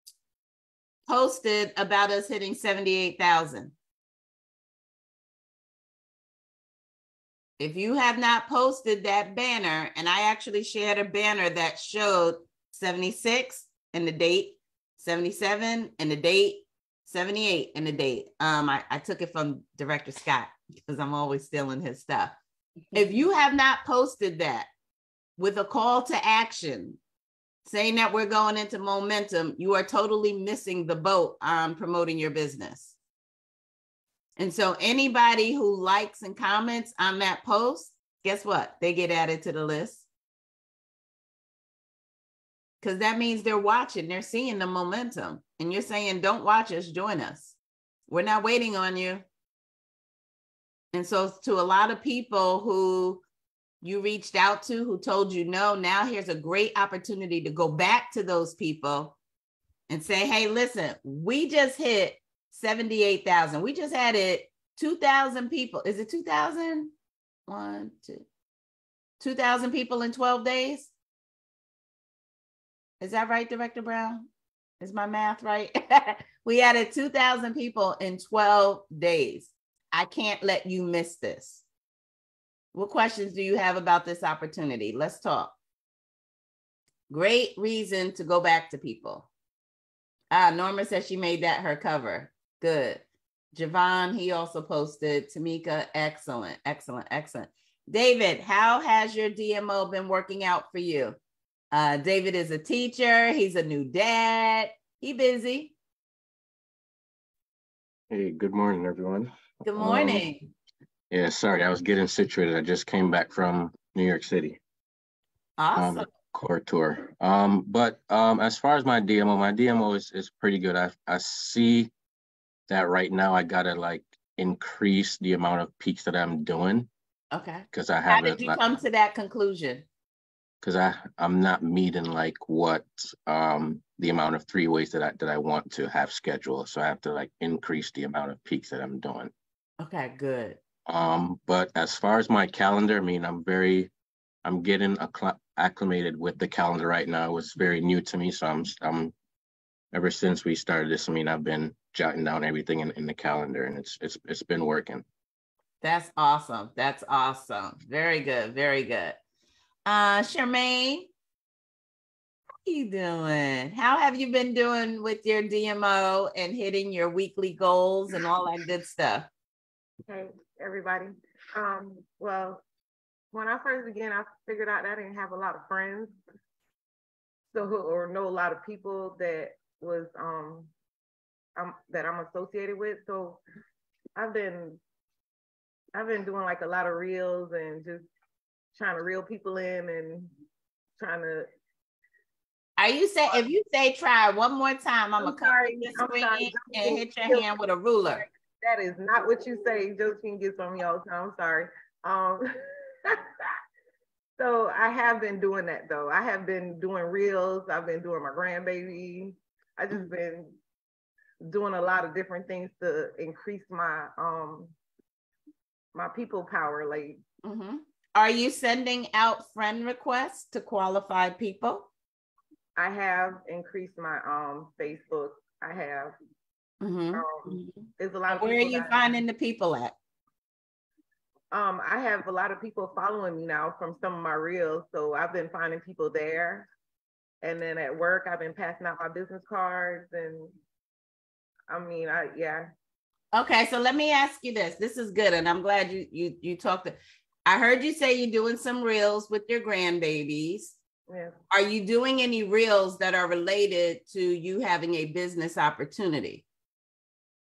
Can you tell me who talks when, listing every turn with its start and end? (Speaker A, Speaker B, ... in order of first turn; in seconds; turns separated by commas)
Speaker A: 1.1-3.7, Speaker A: 7.6-22.4, Speaker A: 22.9-24.7, Speaker A: 25.4-27.0, Speaker A: 27.6-33.0, Speaker A: 34.4-40.0, Speaker A: 42.8-47.5, Speaker A: 48.1-49.2, Speaker A: 50.9-53.2, Speaker A: 53.8-59.1, Speaker A: 59.9-66.9, Speaker A: 67.5-68.2, Speaker A: 69.2-70.9, Speaker A: 73.0-74.2, Speaker A: 74.8-81.6, Speaker A: 82.7-85.5, Speaker A: 87.1-89.3, Speaker A: 90.3-101.2, Speaker A: 101.7-105.7, Speaker B: 108.1-110.2, Speaker A: 109.6-110.5, Speaker B: 111.1-114.6, Speaker A: 115.6-116.1, Speaker B: 115.8-121.9, Speaker B: 122.7-126.9, Speaker A: 127.3-129.8, Speaker B: 127.7-128.8, Speaker B: 130.6-139.3, Speaker A: 139.8-140.6, Speaker B: 140.9-143.9, Speaker B: 144.4-149.1, Speaker B: 149.9-155.0, Speaker A: 155.8-159.2, Speaker A: 159.9-161.1, Speaker A: 162.6-169.3, Speaker C: 170.1-172.6, Speaker C: 173.3-176.2, Speaker C: 177.5-180.7, Speaker C: 181.6-183.4, Speaker C: 184.2-184.8, Speaker C: 185.9-188.0, Speaker C: 188.8-190.3, Speaker C: 191.0-191.5, Speaker A: 192.8-198.2, Speaker C: 195.2-197.5, Speaker C: 198.1-202.5, Speaker C: 204.4-210.6, Speaker C: 211.4-214.7, Speaker C: 215.9-217.2, Speaker A: 217.4-221.9, Speaker C: 222.8-226.2, Speaker A: 226.8-229.9, Speaker C: 227.1-229.2, Speaker C: 231.5-236.7, Speaker C: 237.4-240.5, Speaker C: 241.7-242.7, Speaker A: 243.3-250.8, Speaker C: 251.1-251.4, Speaker A: 251.5-256.4